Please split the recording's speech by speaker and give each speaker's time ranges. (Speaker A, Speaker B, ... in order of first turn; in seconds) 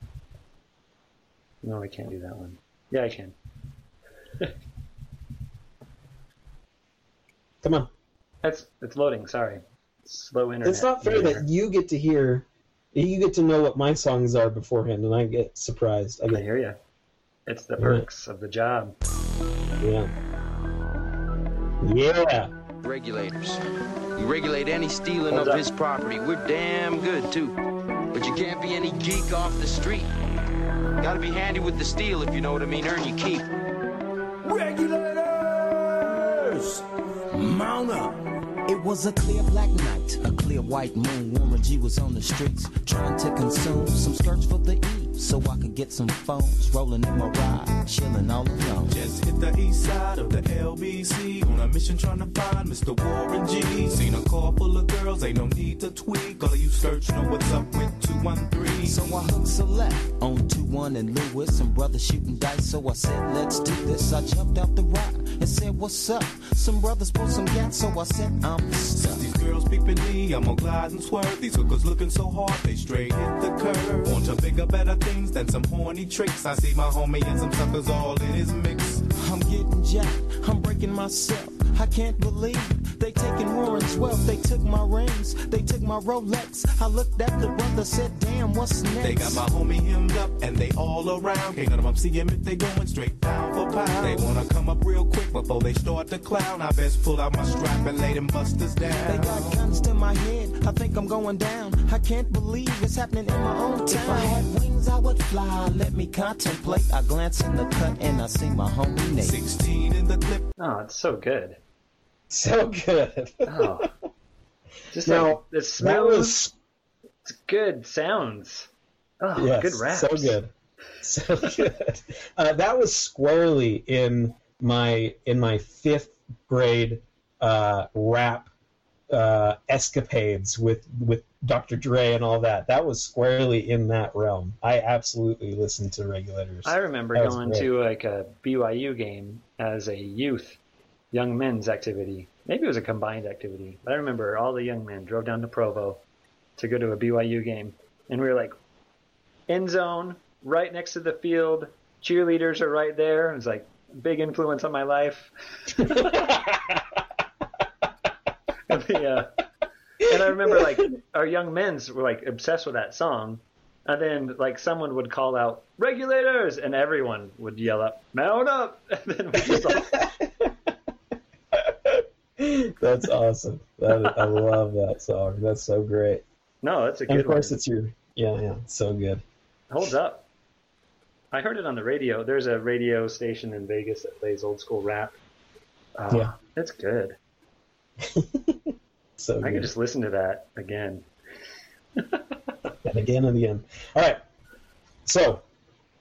Speaker A: 1.6-3.3, 8.4-11.5, 16.3-16.8, 17.5-18.9, 25.3-25.6, 110.6-111.6, 113.5-113.9, 114.9-116.4, 117.2-118.7, 119.2-120.4, 136.6-140.6, 141.1-146.0, 146.6-148.5, 149.5-156.4, 158.7-159.3, 160.0-169.9, 173.9-174.5, 176.6-177.6, 179.7-180.2, 181.3-185.2, 186.0-187.2, 189.4-191.0
Speaker B: 7.6-7.9, 10.6-16.4, 17.8-18.1, 19.8-20.1, 21.8-22.5, 112.3-113.9, 115.0-116.5, 119.3-128.5, 129.1-137.7, 155.8-156.8, 160.1-160.8, 169.4-170.5, 171.5-176.2, 177.1-179.2, 188.0-189.7, 192.8-194.2, 195.1-195.4
Speaker C: 22.8-23.6, 24.1-27.6, 28.1-30.1, 31.0-33.5
Speaker D: 34.4-49.0, 58.8-69.3, 79.1-89.4, 93.9-94.3, 99.0-109.4
Speaker E: 48.9-59.0, 68.9-79.1, 89.0-99.6, 109.2-110.5